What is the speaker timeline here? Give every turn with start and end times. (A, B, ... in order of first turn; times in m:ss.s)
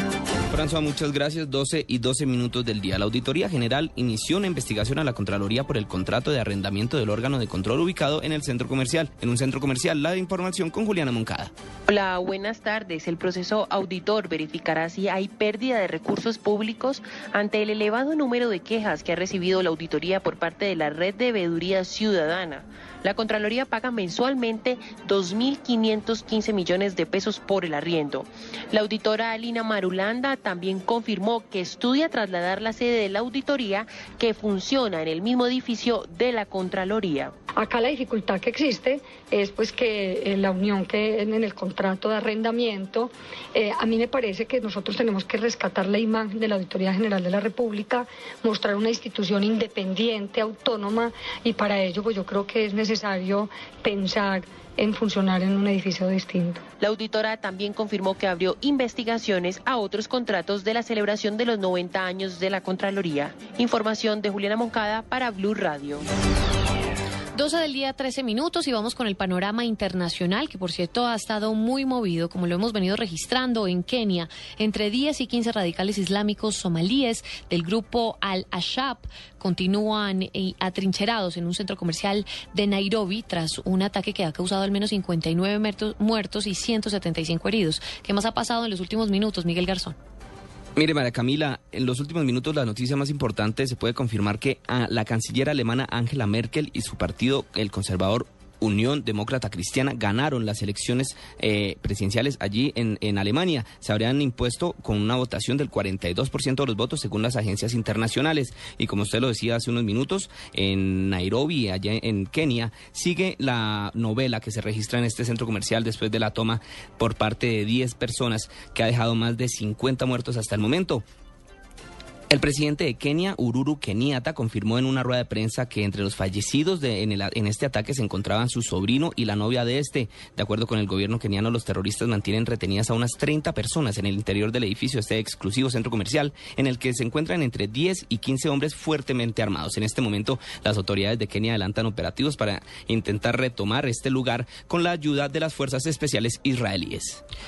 0:00.5-0:11.5 A
0:11.9-0:37.3 B
0:37.6-0:56.6 C
0:56.8-1:06.0 B
1:07.3-1:30.0 D
1:30.8-2:01.0 A
2:02.3-2:27.2 A